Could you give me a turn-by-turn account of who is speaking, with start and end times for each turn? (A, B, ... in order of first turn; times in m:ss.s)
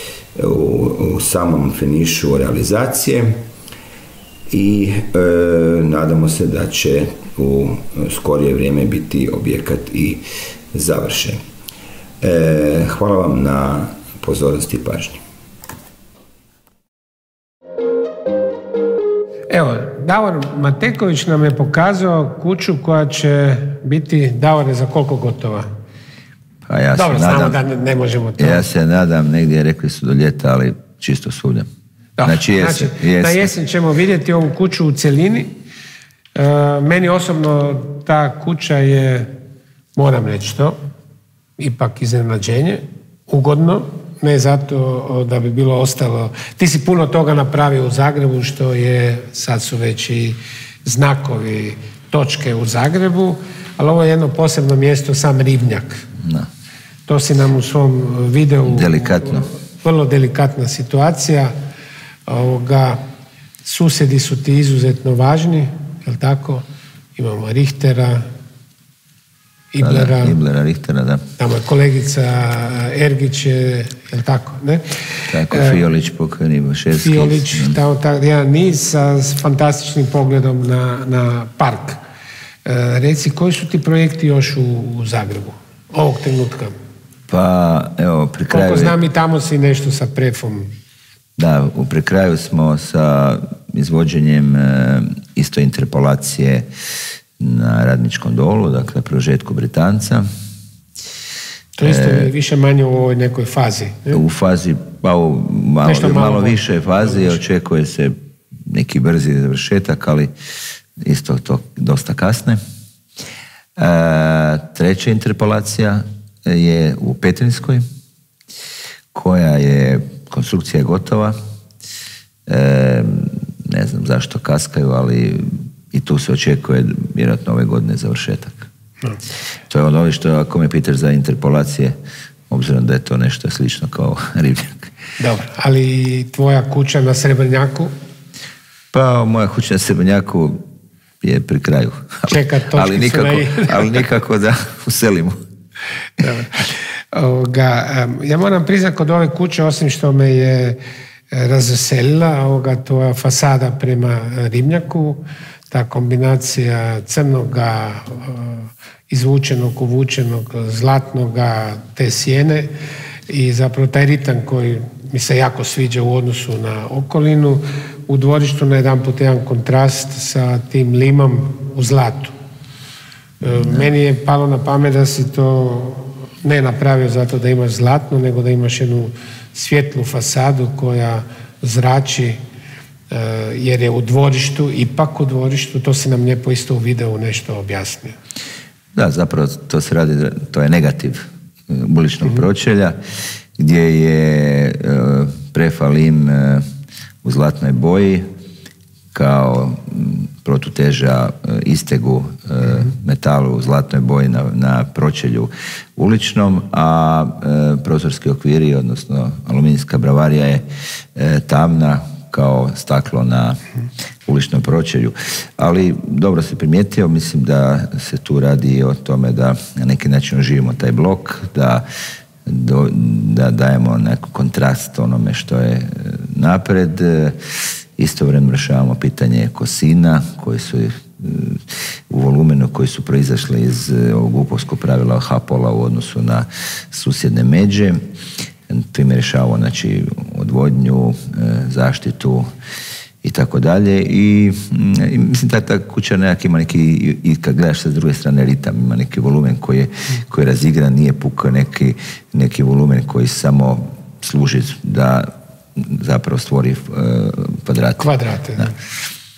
0:00.4-0:03.4 A
0:04.5-0:11.4 A
0:12.2-0:15.2 A
0:19.5-0:25.7 B
0:26.6-0:27.6 C
0:26.9-0:28.6 B
0:28.4-0:31.7 C
0:32.2-0:35.5 B
0:32.2-0:33.5 C
0:36.4-0:39.4 B
0:40.0-0:40.8 B
0:41.6-0:56.0 B
0:56.2-0:56.5 C
0:57.1-1:01.6 B
0:58.6-0:59.5 C
1:02.3-1:03.0 B
1:03.6-1:06.6 B
1:07.2-1:08.3 B
1:09.7-1:10.4 B
1:09.8-1:11.2 C
1:11.4-1:14.8 B
1:15.3-1:17.8 C
1:15.5-1:15.8 B
1:16.9-1:22.0 B
1:22.6-1:26.8 B
1:27.3-1:29.0 C
1:28.5-1:30.7 B
1:31.4-1:36.7 C
1:37.4-1:40.3 C
1:41.8-1:44.2 B
1:41.8-1:42.3 C
1:44.1-1:48.1 C
1:45.8-1:47.4 B
1:48.6-1:50.3 C
1:51.0-1:52.6 C
1:53.8-1:57.8 C
1:59.1-2:01.4 C
2:02.5-2:08.6 C
2:09.7-2:12.0 C
2:12.5-2:14.9 C
2:15.2-2:17.9 B
2:18.9-2:20.6 C
2:21.2-2:25.4 C
2:22.3-2:24.0 B
2:26.2-2:30.8 B
2:31.3-2:42.7 B
2:43.3-2:52.3 B
2:53.4-3:02.4 B
2:53.4-2:53.8 C
3:03.1-3:08.2 B
3:08.9-3:13.0 C
3:13.6-3:16.6 C
3:17.2-3:18.2 C
3:19.1-3:30.6 C
3:31.2-3:33.6 C
3:34.2-3:41.8 C
3:42.5-3:47.4 C
3:48.0-3:58.0 C
3:58.7-4:02.5 C
4:03.2-4:18.7 C
4:18.0-4:18.7 B